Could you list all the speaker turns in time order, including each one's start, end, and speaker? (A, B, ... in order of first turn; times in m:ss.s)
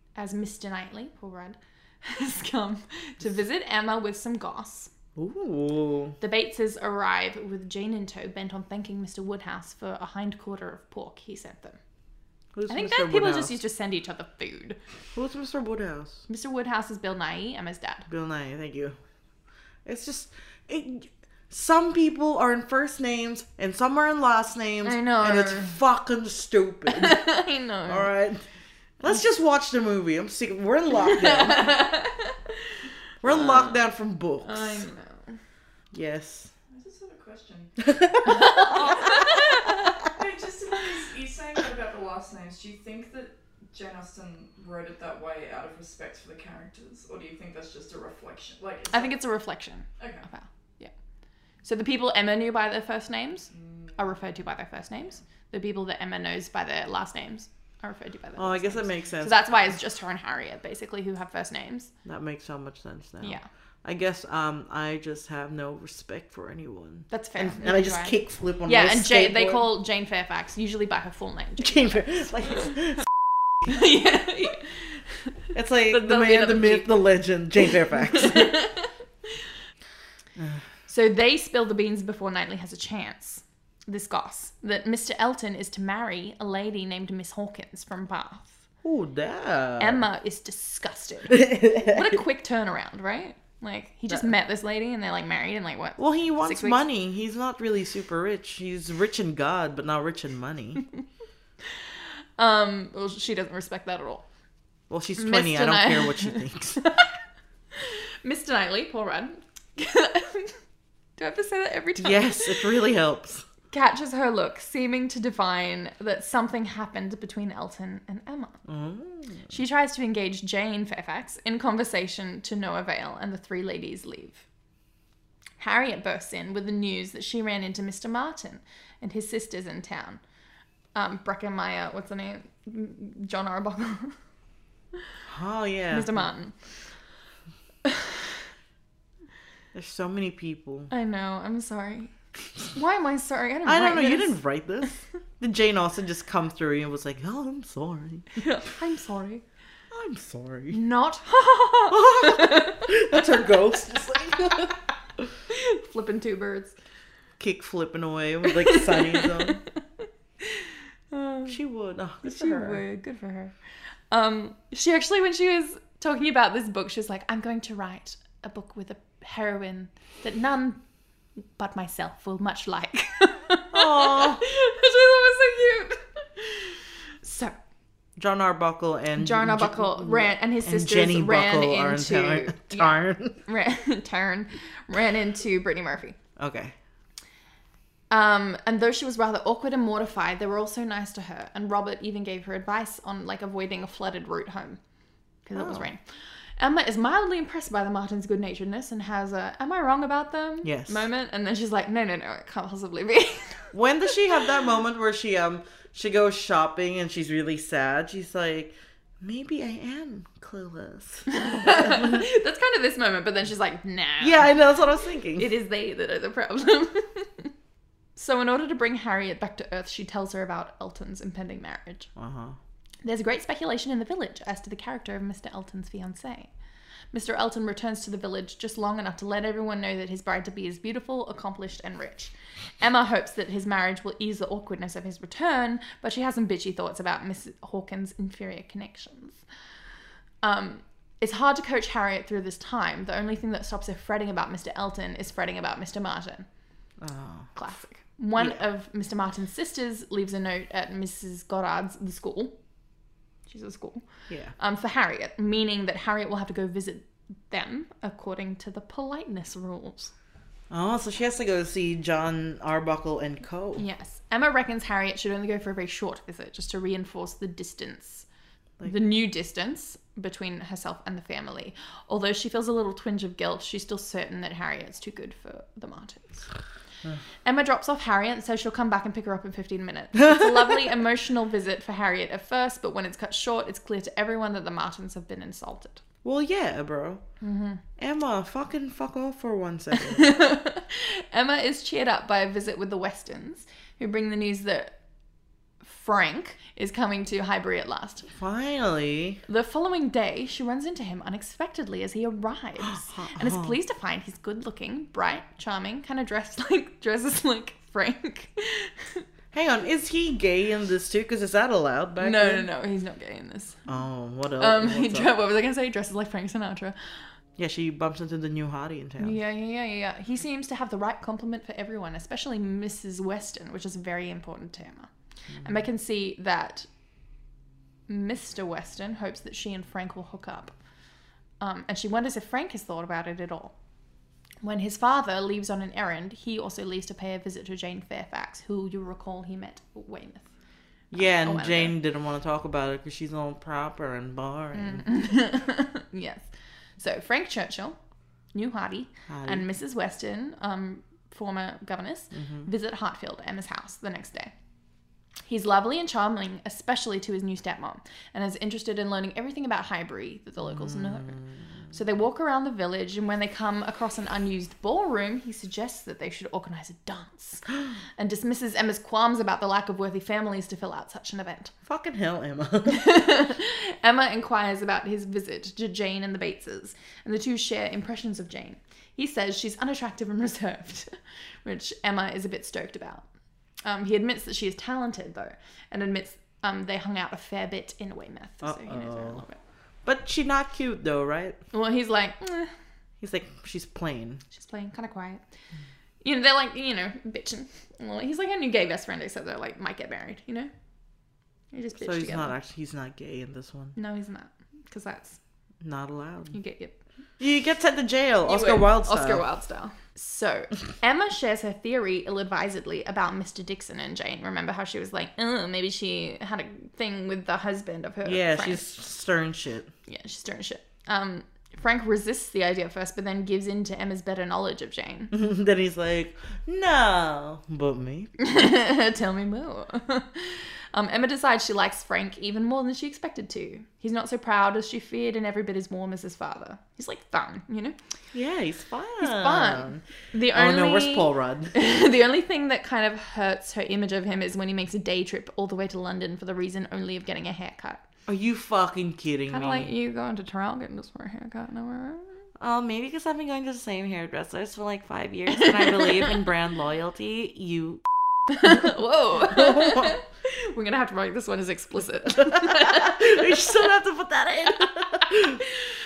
0:00.2-0:04.9 A
0:05.2-0:06.2 B
0:06.2-0:11.8 A
0:12.5-0:13.6 B
0:12.7-0:14.8 A
0:15.2-0:16.2 B
0:16.3-0:18.1 A
0:18.1-0:19.0 B
0:19.9-0:27.2 B
0:24.8-0:25.7 A
0:26.9-0:28.1 A
0:27.9-0:28.4 B
0:29.0-0:31.8 B
0:31.0-0:32.4 A
0:33.2-0:34.9 B
0:33.2-0:33.8 A
0:34.4-0:35.4 A
0:35.9-0:36.5 B
0:36.7-0:49.2 C
0:37.9-0:38.8 B
0:38.2-0:40.0 A
0:48.9-0:50.9 A
0:50.0-0:50.3 C
0:51.6-1:01.9 A
0:53.5-0:54.0 C
0:58.4-0:59.4 B
1:02.0-1:09.7 B
1:03.2-1:03.5 A
1:07.1-1:12.3 A
1:11.6-1:13.1 B
1:13.7-1:15.0 A
1:15.5-1:18.6 B
1:15.9-1:17.0 A
1:17.6-1:18.9 A
1:20.4-1:20.6 B
1:20.9-1:28.6 A
1:28.8-1:30.0 B
1:29.8-1:36.8 A
1:31.3-1:32.1 B
1:36.0-1:40.8 B
1:42.4-1:44.2 A
1:44.9-1:46.8 B
1:45.2-1:47.1 A
1:47.7-1:50.6 A
1:51.2-1:52.7 A
1:52.0-1:53.5 B
1:53.7-1:58.6 A
1:58.7-1:59.5 B
1:59.5-2:04.4 A
2:05.6-2:10.2 A
2:11.0-2:14.2 A
2:15.3-2:16.2 B
2:15.9-2:16.6 A
2:17.8-2:18.3 A
2:19.7-2:20.9 B
2:20.9-2:24.9 A
2:23.6-2:28.4 B
2:28.4-2:29.4 A
2:29.9-2:30.8 B
2:30.7-2:33.2 A
2:31.9-2:35.3 B
2:35.5-2:36.7 A
2:37.4-2:39.6 B
2:38.5-2:39.6 A
2:40.4-2:41.6 A
2:41.5-2:42.8 B
2:42.2-2:43.5 A
2:44.1-2:50.8 A
2:51.6-2:57.6 A
2:53.7-2:54.4 B
2:58.2-3:03.4 B
2:59.2-3:06.2 A
3:06.4-3:06.7 B
3:08.1-3:14.8 A
3:15.5-3:16.0 A
3:15.6-3:15.9 B
3:16.6-3:23.7 A
3:20.6-3:21.0 B
3:23.7-3:32.3 B
3:31.3-3:34.6 A
3:34.2-3:35.5 B
3:35.4-3:37.5 A
3:38.2-3:42.1 A
3:42.2-3:42.6 B
3:43.0-3:46.5 A
3:47.1-3:59.4 A
4:00.4-4:06.5 A
4:07.0-4:07.5 B
4:07.6-4:12.6 A
4:13.5-4:14.0 A
4:14.6-4:20.1 A
4:20.7-4:23.8 B
4:23.8-4:28.3 A
4:28.8-4:36.5 A
4:37.4-4:46.0 A
4:46.2-4:47.2 B
4:47.4-4:47.8 A
4:48.0-4:50.3 B
4:49.9-4:54.9 A
4:55.8-4:58.3 A
4:58.3-4:59.4 B
4:59.5-5:09.2 A
5:02.8-5:03.8 B
5:09.5-5:12.7 B
5:12.2-5:13.8 A
5:13.9-5:15.3 B
5:14.6-5:17.0 A
5:17.6-5:19.4 B
5:19.2-5:26.9 A
5:28.1-5:30.7 A
5:31.6-5:33.7 A
5:34.6-5:40.5 A
5:41.1-5:42.0 A
5:41.1-5:45.1 B
5:44.7-5:48.0 A
5:48.5-5:54.5 A
5:49.3-5:49.7 B
5:55.5-6:07.7 A
6:00.7-6:01.5 B
6:08.2-6:11.7 A
6:11.9-6:13.1 B
6:12.9-6:23.3 A
6:23.8-6:29.6 A
6:28.6-6:29.4 B
6:30.0-6:31.6 B
6:31.7-6:32.7 A
6:33.2-6:34.4 B
6:34.5-6:35.4 A
6:36.2-6:40.7 A
6:41.7-6:42.5 A
6:42.0-6:44.0 B
6:44.0-6:45.4 A
6:45.8-6:46.6 B
6:46.5-6:47.0 A
6:47.4-6:49.4 B
6:48.4-6:58.9 A
6:58.2-6:59.9 B
7:00.1-7:05.3 A
7:05.3-7:08.3 B
7:08.4-7:18.0 A
7:18.3-7:21.8 B
7:19.2-7:28.0 A
7:28.3-7:29.9 B
7:29.5-7:32.3 A
7:32.6-7:38.1 B
7:35.5-7:36.3 A
7:38.5-7:43.8 A
7:38.6-7:40.2 B
7:42.4-7:45.6 B